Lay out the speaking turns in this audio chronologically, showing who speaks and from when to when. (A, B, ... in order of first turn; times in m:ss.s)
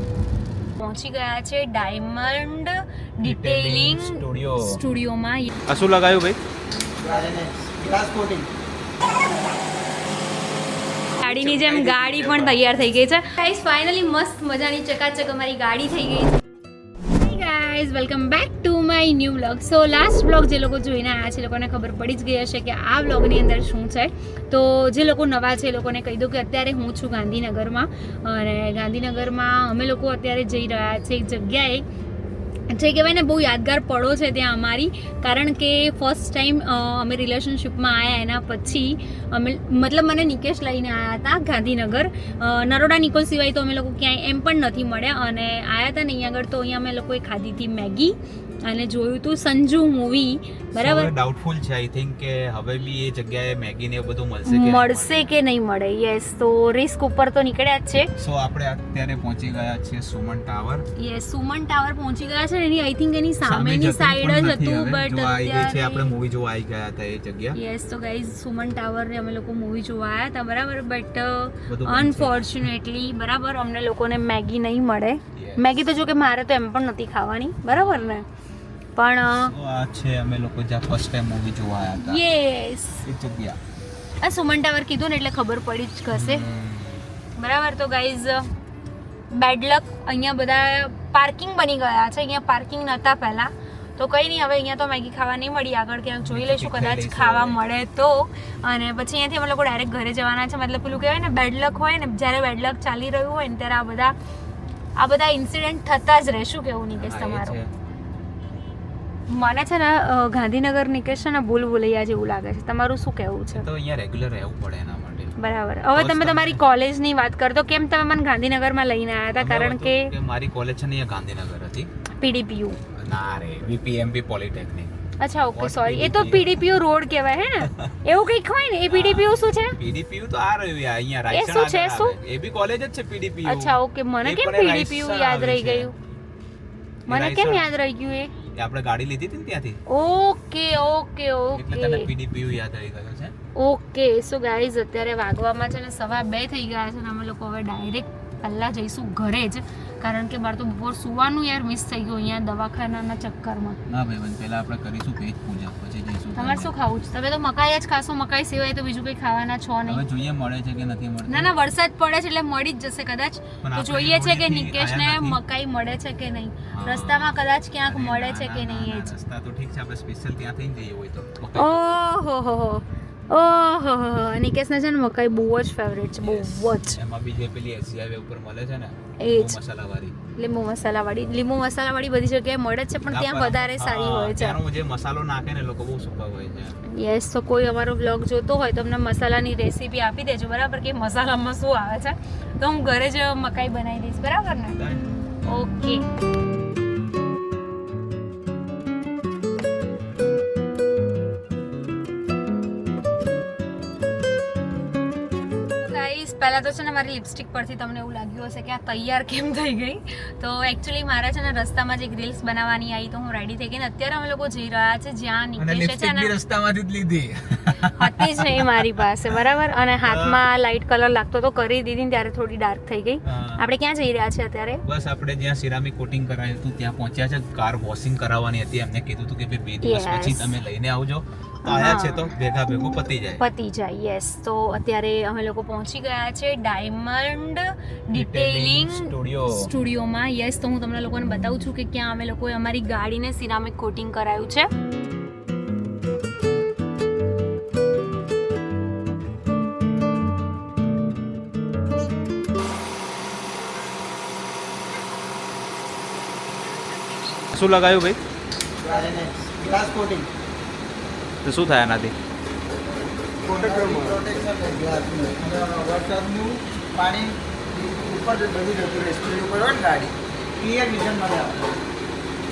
0:00.8-0:05.5 A
0:03.2-0:04.8 B
0:05.7-0:06.4 B
0:07.0-0:08.5 C
0:11.2-0:16.4 A
0:11.2-0:13.1 B
0:17.0-0:31.8 A
0:32.7-0:51.1 A
0:50.8-0:55.4 B
0:54.5-0:58.1 A
0:58.2-1:00.8 B
1:01.0-1:06.1 A
1:03.4-1:07.6 B
1:07.6-1:18.3 A
1:11.7-1:12.7 B
1:15.4-1:15.8 B
1:19.0-1:19.5 A
1:19.4-1:22.2 B
1:22.0-1:23.1 A
1:23.0-1:23.6 B
1:24.2-1:26.4 A
1:26.1-1:27.1 B
1:27.4-1:28.5 A
1:29.3-1:44.2 A
1:36.2-1:37.6 B
1:45.0-1:47.6 A
1:47.0-1:47.7 B
1:49.3-1:53.7 A
1:53.5-1:55.4 B
1:55.4-2:00.1 A
1:55.9-1:56.6 B
1:59.4-2:01.9 B
2:02.2-2:02.8 A
2:03.0-2:04.9 B
2:05.2-2:09.8 A
2:05.5-2:06.7 B
2:07.6-2:08.0 B
2:08.9-2:15.9 B
2:11.3-2:12.2 A
2:13.4-2:15.9 A
2:17.1-2:17.7 B
2:17.1-2:18.4 A
2:18.6-2:19.8 B
2:19.9-2:22.1 A
2:21.5-2:23.3 B
2:23.6-2:33.8 A
2:33.9-2:36.7 B
2:36.4-2:40.0 A
2:39.9-2:41.5 B
2:41.3-2:49.1 A
2:43.6-2:45.4 B
2:46.7-2:51.8 B
2:51.6-2:57.0 A
2:56.2-3:00.2 B
2:59.2-2:59.6 A
3:00.4-3:04.6 A
3:03.1-3:06.8 B
3:06.9-3:14.8 A
3:14.8-3:15.0 B
3:15.4-3:16.0 A
3:25.8-3:36.3 A
3:35.6-3:38.9 B
3:38.0-3:44.8 A
3:40.0-3:40.4 B
3:43.2-3:43.7 B
3:44.8-3:53.4 B
3:49.8-3:50.6 A
3:51.6-3:52.3 A
3:53.4-4:04.7 A
3:58.1-3:59.7 B
4:17.5-4:18.2 B
4:18.8-4:20.3 C
4:21.4-4:22.1 B
4:23.4-4:31.7 C
4:23.6-4:24.2 B